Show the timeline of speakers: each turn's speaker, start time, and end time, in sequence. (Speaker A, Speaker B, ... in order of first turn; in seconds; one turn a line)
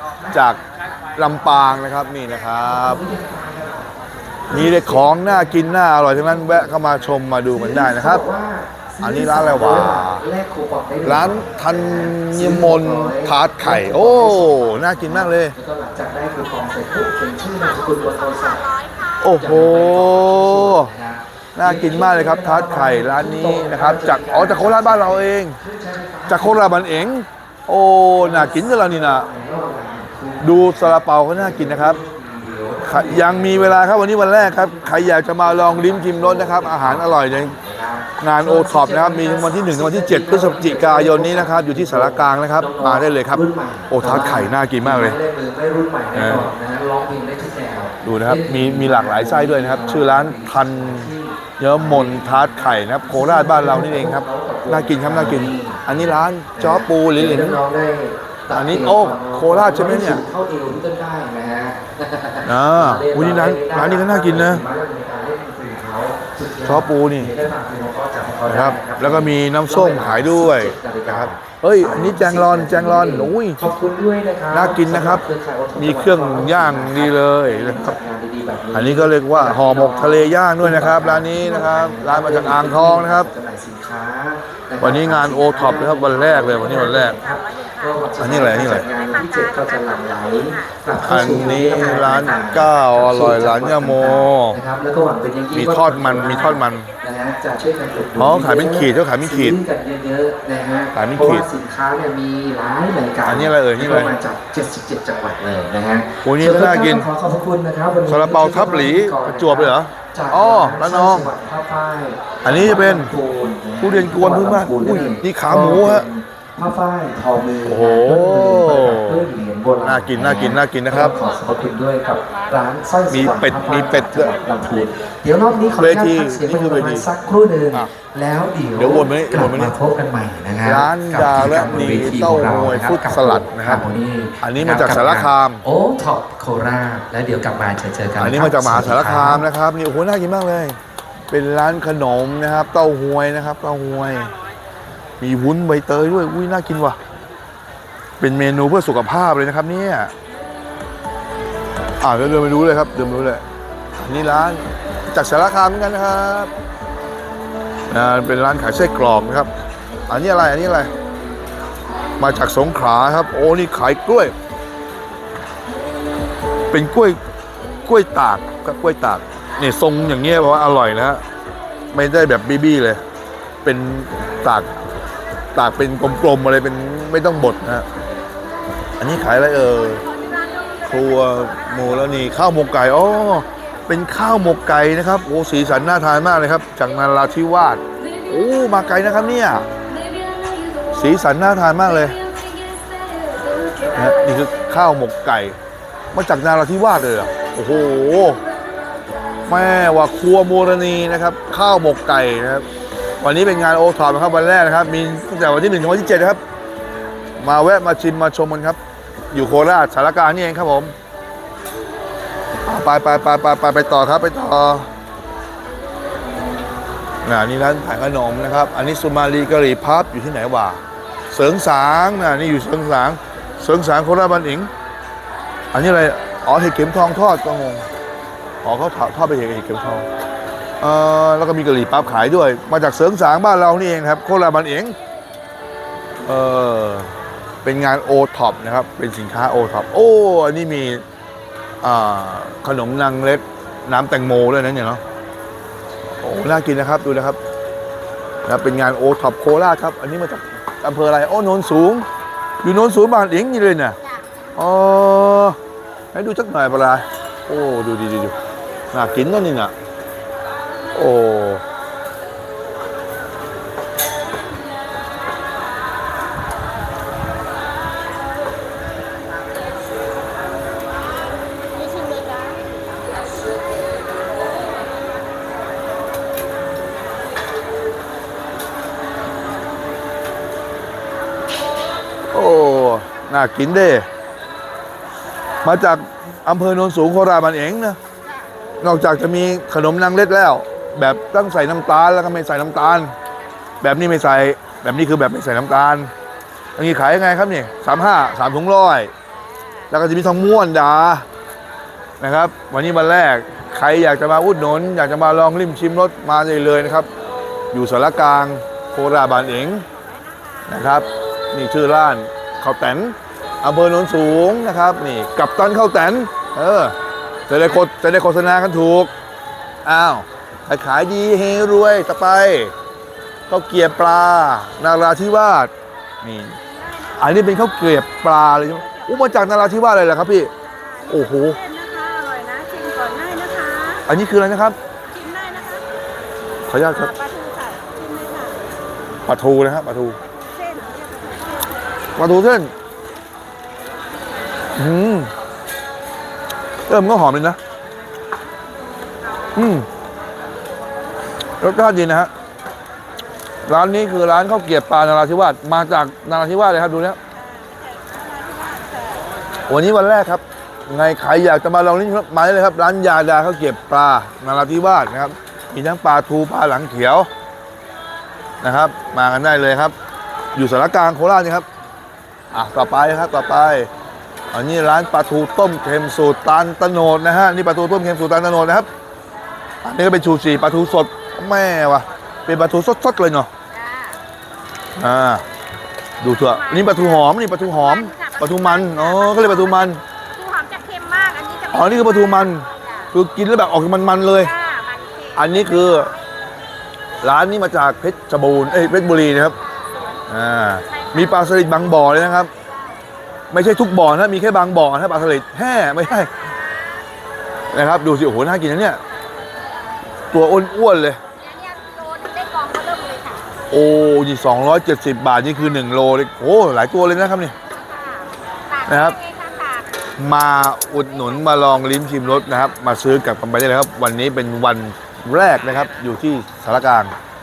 Speaker A: 0.1-0.6
Speaker B: 0.3-0.6
Speaker B: 1.2-3.0
Speaker A: 2.5-27.0
Speaker B: 4.5-8.2
Speaker B: 9.0-10.3
Speaker B: 11.0-15.6
Speaker B: 19.2-20.9
Speaker B: 21.6-25.6
Speaker B: 26.3-29.3
Speaker A: 28.1-139.5
Speaker B: 30.4-32.0
Speaker B: 32.9-37.5
Speaker B: 38.2-45.2
Speaker B: 46.1-46.5
Speaker B: 48.0-57.6
Speaker B: 58.5-60.2
Speaker B: 62.5-64.7
Speaker B: 66.7-67.3
Speaker B: 68.5-73.7
Speaker B: 74.5-78.0
Speaker B: 78.7-83.3
Speaker B: 84.8-87.2
Speaker C: 87.5-87.8
Speaker B: 88.2-88.9
Speaker C: 89.0-89.7
Speaker B: 91.0-94.6
Speaker B: 95.5-96.9
Speaker B: 98.2-99.6
Speaker B: 101.0-101.5
Speaker B: 103.3-104.2
Speaker B: 106.2-107.1
Speaker B: 108.1-111.3
Speaker B: 112.5-113.1
Speaker B: 113.8-116.1
Speaker B: 117.7-119.3
Speaker B: 119.8-121.1
Speaker B: 123.1-124.4
Speaker B: 125.7-127.1
Speaker B: 128.8-129.8
Speaker B: 130.6-133.9
Speaker B: 134.4-135.6
Speaker B: 138.2-140.8
Speaker B: 141.3-144.3
Speaker B: 145.2-147.0
Speaker B: 148.2-150.1
Speaker B: 152.0-153.4
Speaker B: 154.0-156.5
Speaker B: 157.9-159.5
Speaker B: 160.1-160.9
Speaker B: 162.2-164.3
Speaker B: 166.7-167.2
Speaker B: 167.8-171.2
Speaker B: 171.9-173.0
Speaker B: 173.6-174.7
Speaker B: 175.5-177.9
Speaker B: 179.0-180.1
Speaker C: 179.9-181.9
Speaker B: 180.8-189.7
Speaker C: 183.4-183.8
Speaker C: 189.9-191.0
Speaker B: 190.9-192.2
Speaker C: 192.1-194.1
Speaker B: 193.9-195.6
Speaker B: 196.1-198.4
Speaker B: 199.5-202.7
Speaker B: 203.2-206.4
Speaker B: 207.4-208.8
Speaker B: 209.3-210.9
Speaker B: 212.7-214.9
Speaker B: 217.2-224.7
Speaker B: 225.7-227.9
Speaker B: 228.6-230.1
Speaker B: 230.8-235.0
Speaker B: 236.2-237.1
Speaker B: 237.6-241.0
Speaker B: 241.8-245.0
Speaker B: 246.2-247.4
Speaker B: 248.4-252.1
Speaker B: 252.6-254.0
Speaker B: 254.6-255.6
Speaker B: 256.1-258.4
Speaker B: 258.9-259.7
Speaker B: 260.9-261.6
Speaker C: 272.0-272.5
Speaker B: 282.3-284.1
Speaker B: 285.6-288.0
Speaker B: 288.8-293.1
Speaker B: 293.8-296.1
Speaker B: 296.8-299.1
Speaker B: 299.9-301.3
Speaker B: 302.2-307.1
Speaker B: 307.7-309.9
Speaker C: 310.2-310.7
Speaker B: 310.7-317.0
Speaker B: 317.5-319.1
Speaker B: 319.9-322.7
Speaker B: 323.5-326.6
Speaker C: 326.6-327.7
Speaker B: 327.2-330.5
Speaker C: 328.8-329.2
Speaker C: 330.6-334.1
Speaker B: 331.1-331.6
Speaker B: 334.1-334.8
Speaker C: 335.1-335.9
Speaker B: 336.7-337.1
Speaker C: 336.9-338.8
Speaker B: 339.3-340.2
Speaker C: 340.2-341.8
Speaker B: 342.2-342.7
Speaker B: 344.8-345.3
Speaker B: 346.9-347.6
Speaker B: 349.6-349.9
Speaker B: 351.6-352.3
Speaker B: 353.7-357.2
Speaker C: 357.4-359.2
Speaker B: 359.7-367.3
Speaker B: 368.6-369.9
Speaker B: 370.6-371.7
Speaker B: 372.5-373.9
Speaker B: 374.5-378.9
Speaker B: 379.8-383.5
Speaker C: 383.7-384.2
Speaker B: 385.0-385.4
Speaker B: 386.2-390.0
Speaker C: 386.4-393.1
Speaker B: 391.7-394.5
Speaker C: 394.4-395.6
Speaker B: 395.4-396.1
Speaker B: 397.2-399.6
Speaker B: 400.3-402.5
Speaker B: 403.5-406.3
Speaker B: 407.7-409.0
Speaker B: 410.3-411.2
Speaker C: 411.4-413.5
Speaker B: 413.7-417.6
Speaker C: 417.7-419.9
Speaker B: 418.9-419.2
Speaker B: 420.2-427.1